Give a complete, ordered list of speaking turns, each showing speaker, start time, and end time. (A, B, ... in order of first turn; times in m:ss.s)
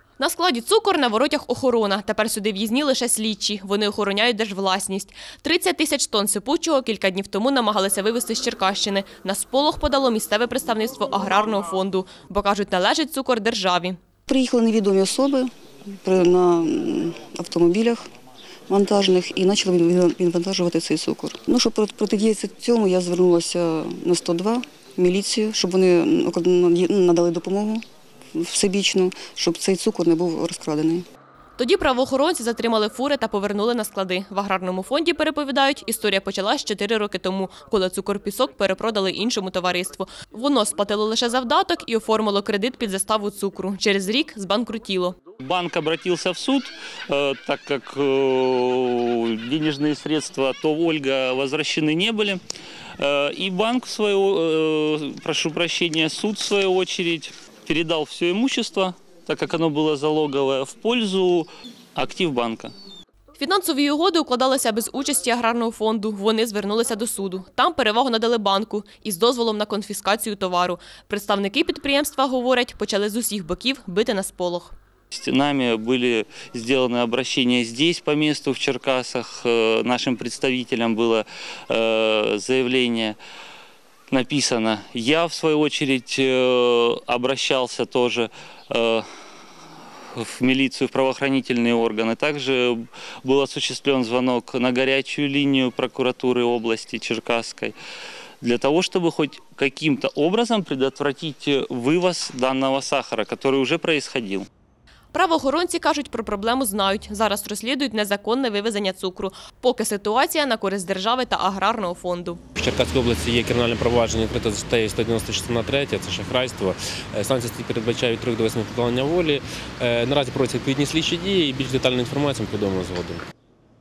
0:00.2-0:14.0 A
0:14.3-0:15.5 B
0:16.0-0:18.1 B
0:18.7-0:31.0 B
0:31.6-0:45.2 A
0:45.4-0:52.4 C
0:53.0-1:02.7 C
1:03.4-1:14.7 A
1:15.1-1:23.2 C
1:24.1-1:29.1 C
1:30.2-1:37.8 C
1:38.4-1:44.5 C
1:45.1-1:52.4 A
1:52.6-2:03.3 D